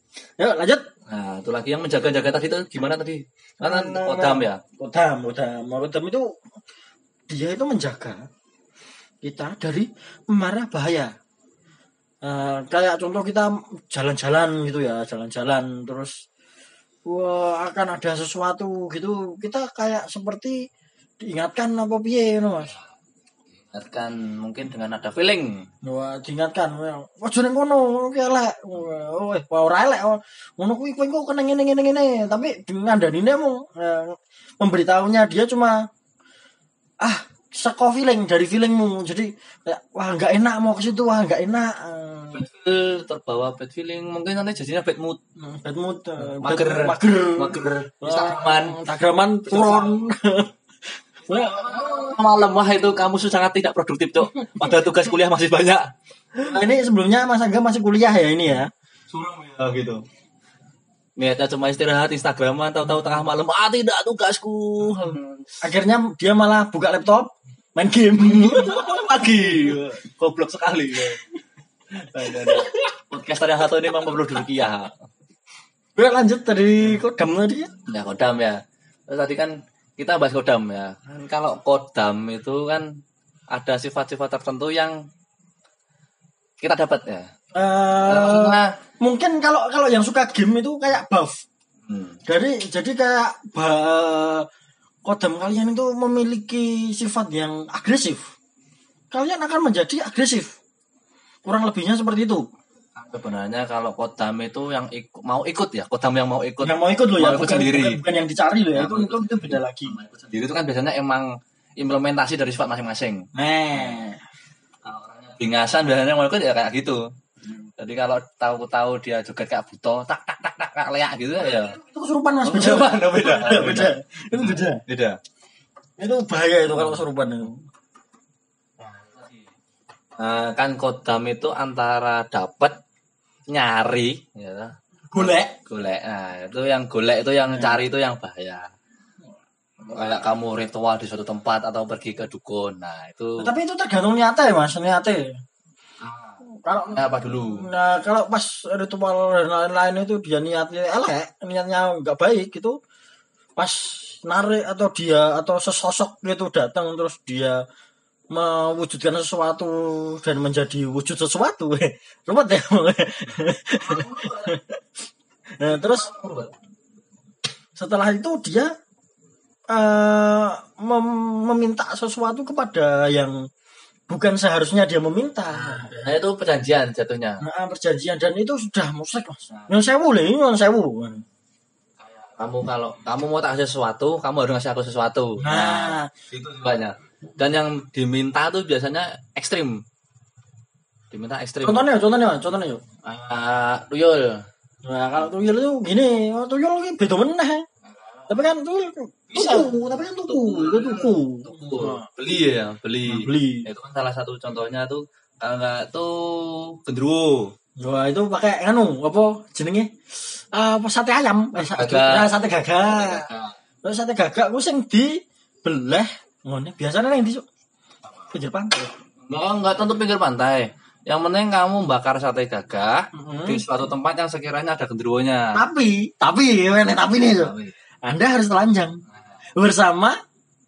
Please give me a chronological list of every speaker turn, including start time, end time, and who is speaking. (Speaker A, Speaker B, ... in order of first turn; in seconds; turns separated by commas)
Speaker A: 0.4-0.9, Speaker B: 1.1-4.6, Speaker A: 3.6-6.3, Speaker A: 7.3-8.3, Speaker A: 9.2-11.1, Speaker A: 12.2-16.2, Speaker A: 17.1-20.6, Speaker A: 21.2-22.8, Speaker B: 23.6-25.7, Speaker A: 25.8-35.8, Speaker A: 37.0-42.5, Speaker B: 42.3-45.2, Speaker A: 45.4-50.5, Speaker B: 46.2-48.8, Speaker B: 49.5-49.9, Speaker A: 51.2-51.8, Speaker B: 51.3-56.6, Speaker A: 54.3-54.9, Speaker A: 56.5-58.7, Speaker B: 59.1-60.0, Speaker B: 61.2-65.5, Speaker A: 65.6-69.8, Speaker B: 68.2-71.2, Speaker A: 72.0-72.9, Speaker B: 72.1-75.0, Speaker A: 76.0-77.7, Speaker B: 77.8-82.9, Speaker B: 83.5-85.0, Speaker B: 86.6-87.3, Speaker A: 87.5-91.4, Speaker B: 88.1-88.7, Speaker B: 91.9-92.2, Speaker A: 92.3-94.5, Speaker A: 95.0-98.3, Speaker A: 99.1-100.5, Speaker A: 101.5-102.5, Speaker B: 103.0-108.0, Speaker A: 106.6-110.0, Speaker B: 108.7-114.0, Speaker A: 113.3-114.2, Speaker B: 114.8-117.1, Speaker B: 117.8-121.8, Speaker A: 121.5-124.8, Speaker B: 122.4-125.2, Speaker A: 126.0-127.6, Speaker B: 126.7-127.0, Speaker B: 128.8-129.5, Speaker B: 130.2-132.8, Speaker B: 133.5-138.7, Speaker A: 135.1-135.6, Speaker B: 139.8-143.5, Speaker A: 143.4-145.4, Speaker B: 146.0-147.7, Speaker A: 146.5-152.8, Speaker A: 153.6-157.6, Speaker A: 158.3-164.8, Speaker B: 163.8-164.6, Speaker A: 165.6-166.2, Speaker B: 165.7-166.6, Speaker A: 167.8-168.7, Speaker A: 169.7-173.4, Speaker A: 174.1-175.9, Speaker B: 175.5-177.4, Speaker A: 177.4-181.2, Speaker B: 182.0-189.8, Speaker A: 185.4-186.1, Speaker B: 191.1-191.9, Speaker A: 191.6-192.8, Speaker B: 193.0-194.5, Speaker A: 194.8-197.7, Speaker A: 198.3-202.1, Speaker B: 199.3-199.7, Speaker B: 200.3-207.5, Speaker A: 203.1-203.7, Speaker A: 207.8-213.3, Speaker B: 211.6-213.6, Speaker A: 213.8-217.4, Speaker A: 218.3-218.9, Speaker B: 219.2-225.7, Speaker A: 223.1-223.7, Speaker A: 225.5-229.0, Speaker B: 227.2-227.7, Speaker A: 229.6-230.2